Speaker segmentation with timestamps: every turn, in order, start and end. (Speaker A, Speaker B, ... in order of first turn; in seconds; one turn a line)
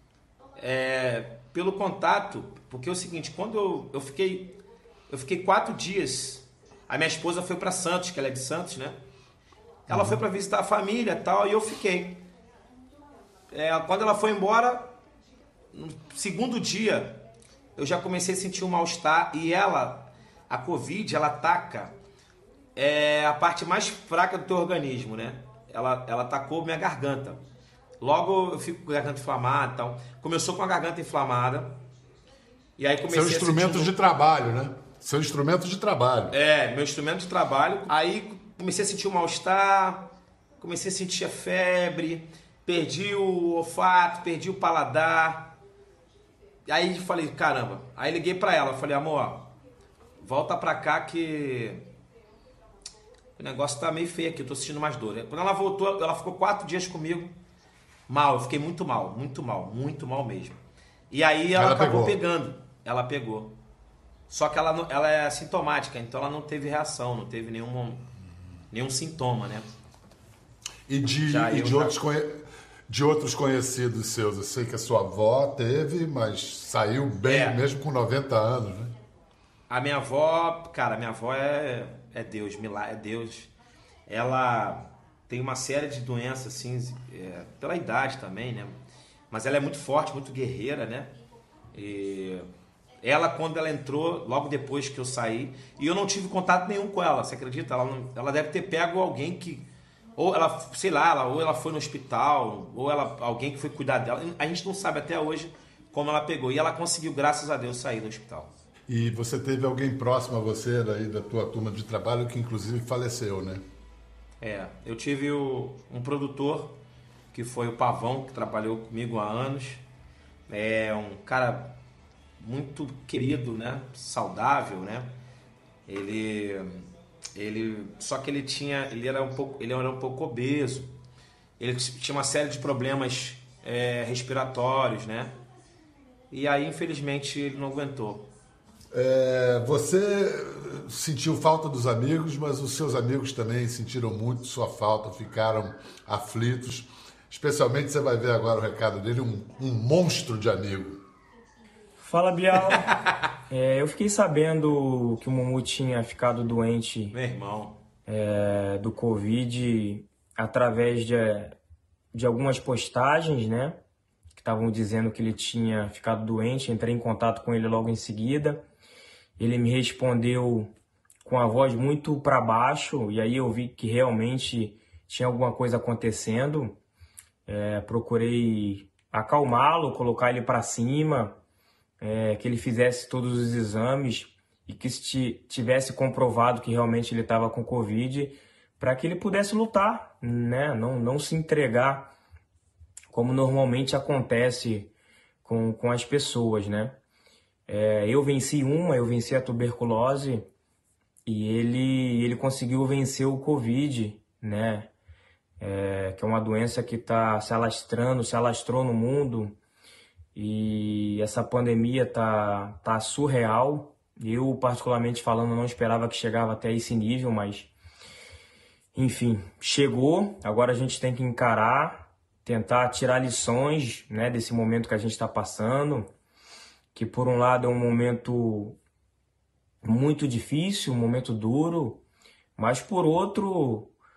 Speaker A: 0.6-4.6
Speaker A: 5.1-9.0
Speaker A: 9.9-12.2
Speaker B: 9.9-10.2
Speaker A: 13.5-14.9
Speaker A: 15.7-17.2
Speaker A: 17.8-21.9
Speaker A: 22.8-27.4
Speaker A: 28.0-31.8
Speaker A: 32.8-33.9
Speaker B: 33.1-36.4
Speaker A: 36.3-45.6
Speaker A: 46.7-49.5
Speaker A: 50.2-51.9
Speaker A: 53.4-57.4
Speaker A: 58.1-60.6
Speaker A: 61.1-63.6
Speaker B: 61.5-62.2
Speaker A: 64.3-68.0
Speaker A: 68.7-69.7
Speaker B: 70.9-78.9
Speaker A: 71.3-72.0
Speaker A: 77.3-77.6
Speaker A: 79.7-83.5
Speaker A: 84.1-88.8
Speaker A: 89.3-91.1
Speaker A: 91.7-92.5
Speaker A: 93.0-108.5
Speaker B: 108.9-113.6
Speaker A: 114.4-116.8
Speaker A: 117.3-119.8
Speaker A: 120.5-121.7
Speaker A: 122.4-125.1
Speaker A: 125.9-130.9
Speaker A: 131.6-135.3
Speaker A: 136.3-138.3
Speaker B: 138.9-151.0
Speaker C: 152.0-153.0
Speaker C: 153.5-157.2
Speaker A: 157.1-157.8
Speaker C: 158.1-161.6
Speaker C: 162.1-163.8
Speaker C: 164.3-168.6
Speaker C: 169.4-170.7
Speaker C: 171.2-176.8
Speaker C: 177.5-181.4
Speaker C: 182.0-192.1
Speaker C: 193.1-194.9
Speaker C: 195.4-197.0
Speaker C: 197.7-200.4
Speaker C: 201.3-204.9
Speaker C: 205.6-209.6
Speaker C: 210.3-217.7
Speaker C: 218.9-226.1
Speaker C: 226.9-228.8
Speaker C: 229.8-232.0
Speaker C: 232.6-233.9